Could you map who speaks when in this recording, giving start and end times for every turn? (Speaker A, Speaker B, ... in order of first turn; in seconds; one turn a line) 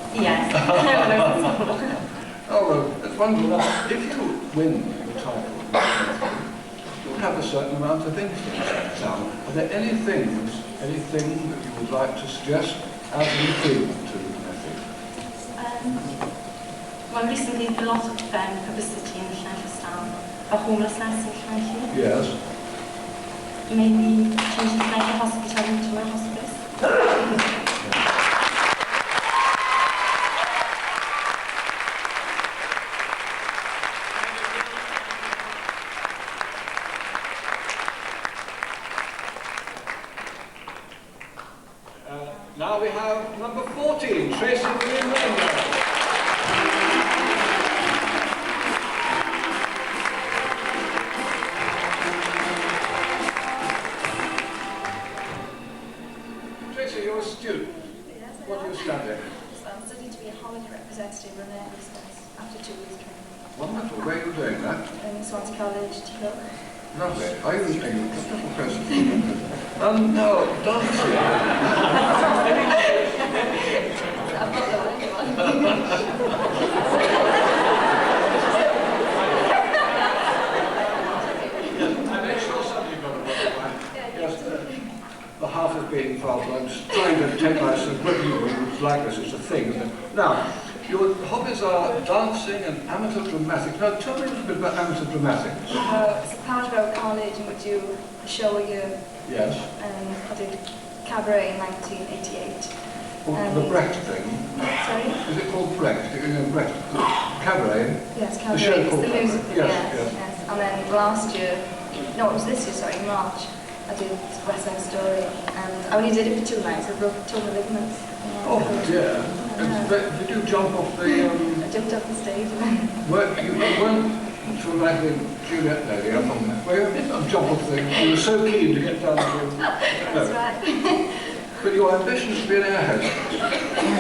Speaker A: 0.1-2.0
Speaker B: 0.5-1.5
Speaker B: 2.5-14.9
Speaker A: 15.6-16.1
Speaker A: 17.1-21.9
Speaker B: 21.9-22.4
Speaker A: 23.7-27.7
Speaker B: 42.1-45.8
Speaker B: 56.7-57.9
Speaker C: 58.2-58.8
Speaker B: 58.4-59.3
Speaker C: 59.3-63.5
Speaker B: 63.5-64.9
Speaker C: 65.0-66.6
Speaker B: 66.9-73.3
Speaker C: 72.5-72.7
Speaker C: 73.3-73.7
Speaker C: 74.2-77.2
Speaker B: 79.2-79.9
Speaker B: 80.8-84.8
Speaker C: 81.3-81.9
Speaker C: 83.9-84.9
Speaker B: 85.4-95.9
Speaker C: 95.8-104.0
Speaker B: 99.2-99.7
Speaker B: 103.2-110.2
Speaker C: 104.6-105.2
Speaker C: 108.1-120.0
Speaker B: 118.4-121.7
Speaker C: 121.1-123.0
Speaker B: 123.0-130.4
Speaker C: 129.9-131.3
Speaker B: 131.6-133.6